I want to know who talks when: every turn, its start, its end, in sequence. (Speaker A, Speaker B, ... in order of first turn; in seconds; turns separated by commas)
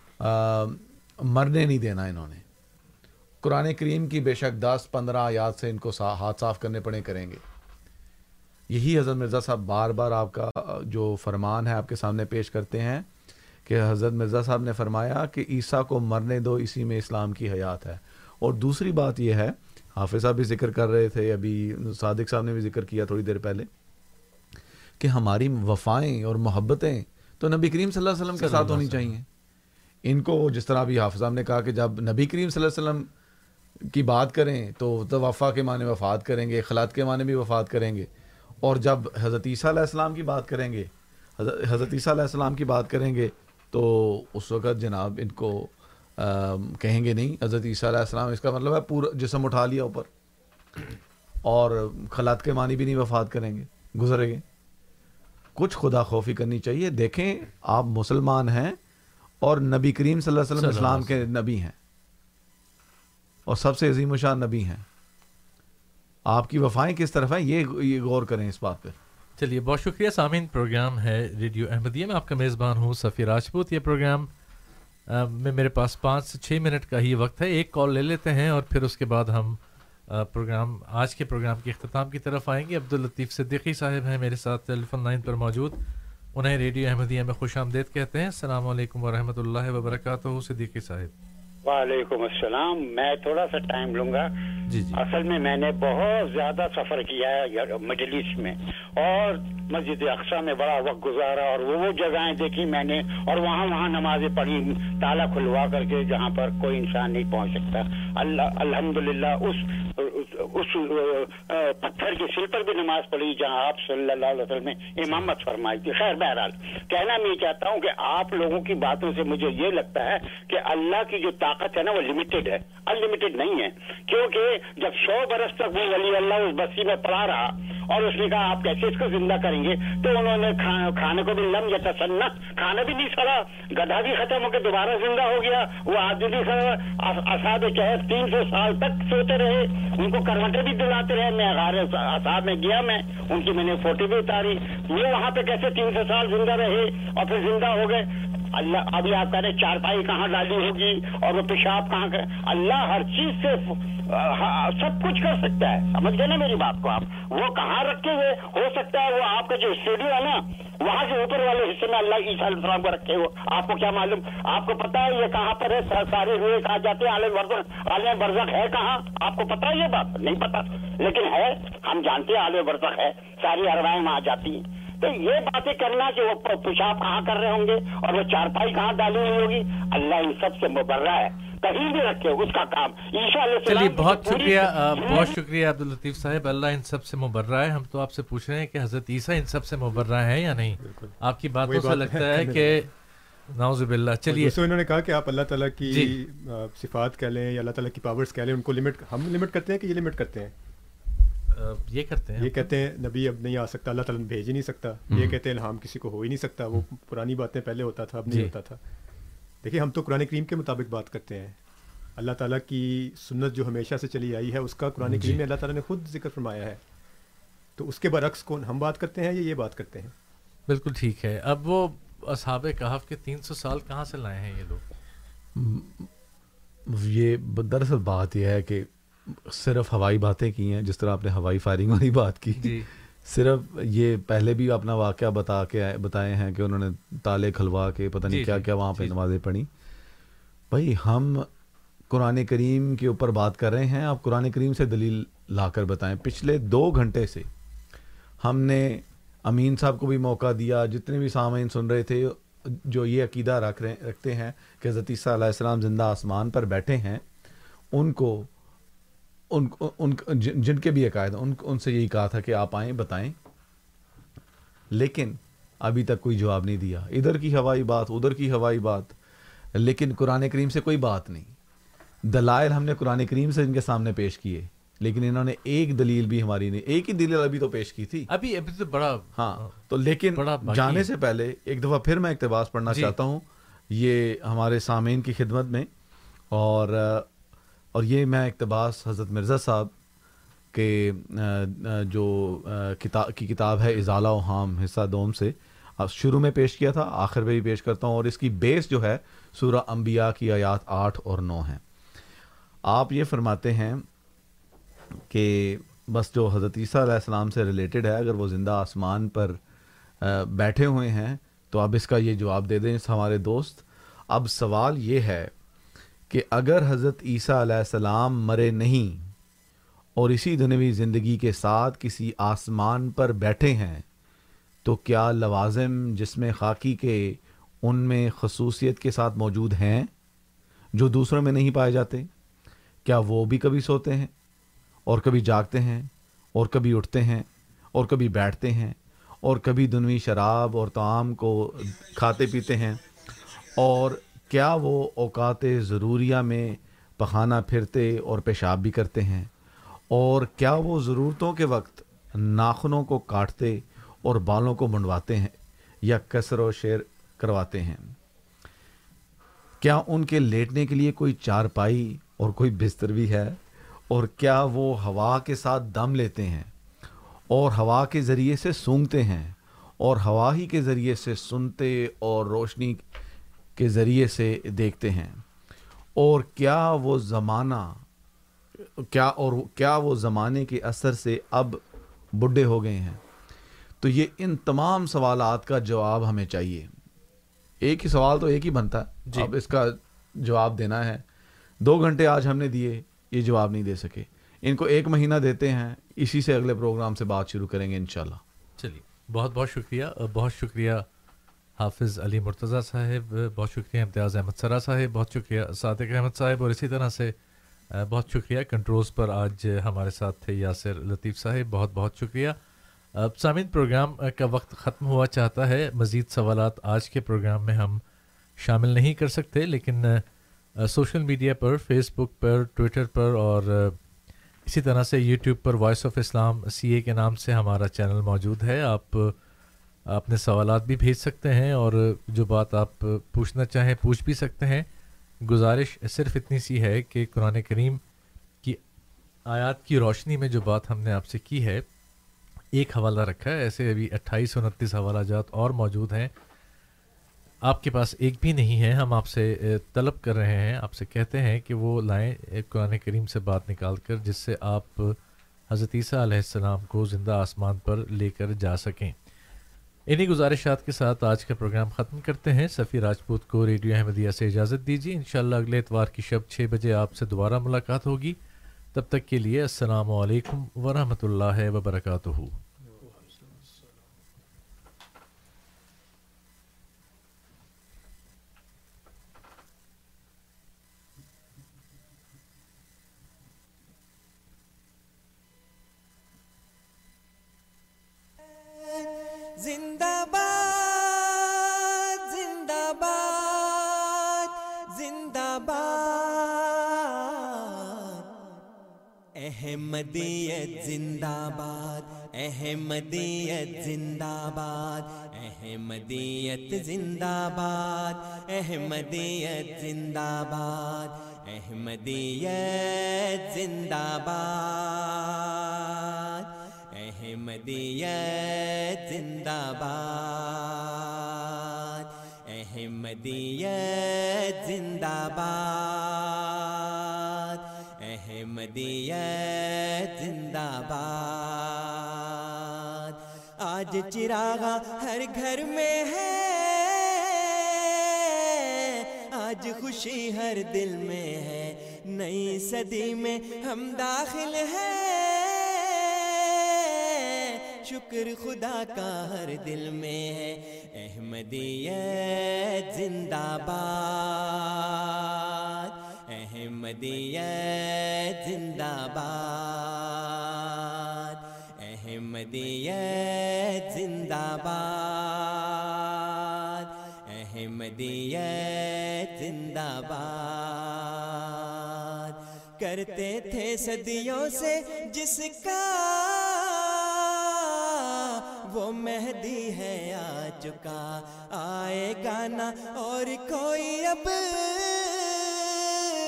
Speaker A: 0.2-2.4, Speaker A: 3.4-7.4, Speaker A: 8.7-13.1, Speaker A: 13.7-23.7, Speaker A: 25.0-29.2, Speaker B: 28.4-29.1, Speaker A: 30.0-33.1, Speaker A: 33.9-38.1, Speaker A: 38.6-50.1, Speaker A: 51.4-54.4, Speaker A: 55.5-58.8, Speaker A: 59.4-61.7, Speaker B: 60.5-61.3, Speaker A: 63.5-64.8, Speaker A: 66.3-69.0, Speaker B: 69.4-74.3, Speaker B: 75.1-85.8, Speaker B: 86.3-91.1, Speaker C: 91.6-94.3, Speaker B: 94.7-95.0, Speaker C: 94.9-185.4, Speaker B: 183.6-192.9, Speaker D: 190.8-192.9, Speaker B: 193.5-194.6, Speaker D: 194.3-200.5, Speaker B: 195.9-196.2, Speaker B: 201.5-202.6, Speaker D: 202.4-208.8, Speaker A: 205.1-205.4, Speaker D: 209.6-211.6, Speaker D: 212.2-216.8, Speaker A: 215.1-215.4, Speaker B: 215.1-215.4, Speaker D: 217.8-220.1, Speaker B: 220.7-224.8, Speaker A: 225.5-226.1, Speaker A: 226.9-239.7, Speaker B: 232.6-232.9, Speaker B: 238.3-239.2, Speaker A: 240.7-241.5, Speaker A: 242.1-247.5, Speaker A: 248.4-257.2, Speaker A: 257.9-258.5, Speaker A: 259.5-263.3, Speaker A: 264.9-269.1, Speaker A: 269.7-271.5, Speaker A: 272.2-278.3, Speaker B: 278.3-281.1, Speaker A: 279.3-285.9, Speaker B: 282.9-283.1, Speaker A: 286.5-287.3, Speaker A: 287.9-289.9, Speaker A: 290.7-301.8, Speaker A: 302.9-304.1, Speaker A: 305.3-309.6, Speaker A: 310.2-315.5, Speaker A: 316.3-319.3, Speaker A: 320.1-324.0, Speaker A: 324.8-330.1, Speaker A: 330.9-332.3, Speaker A: 333.0-334.3, Speaker A: 335.1-349.5, Speaker A: 350.1-358.1, Speaker A: 359.8-366.7, Speaker A: 367.5-373.0, Speaker A: 373.8-375.4, Speaker A: 376.1-378.0, Speaker A: 378.8-381.8, Speaker A: 382.4-383.2, Speaker A: 384.0-386.9, Speaker A: 387.8-391.2, Speaker A: 391.8-398.4, Speaker B: 398.8-401.1, Speaker B: 401.8-407.3, Speaker B: 407.9-412.6, Speaker B: 413.1-418.0, Speaker B: 418.6-420.2, Speaker B: 420.8-424.0, Speaker B: 424.6-429.3, Speaker B: 430.1-434.9, Speaker B: 435.4-438.0, Speaker B: 439.4-441.8, Speaker B: 442.7-446.3, Speaker B: 447.6-455.2, Speaker B: 455.7-459.1, Speaker B: 460.1-468.4, Speaker B: 468.9-472.6, Speaker E: 488.4-494.1, Speaker E: 494.9-498.2, Speaker E: 499.4-515.5, Speaker E: 516.9-521.2, Speaker E: 521.9-555.1, Speaker E: 556.3-566.1, Speaker E: 566.8-585.7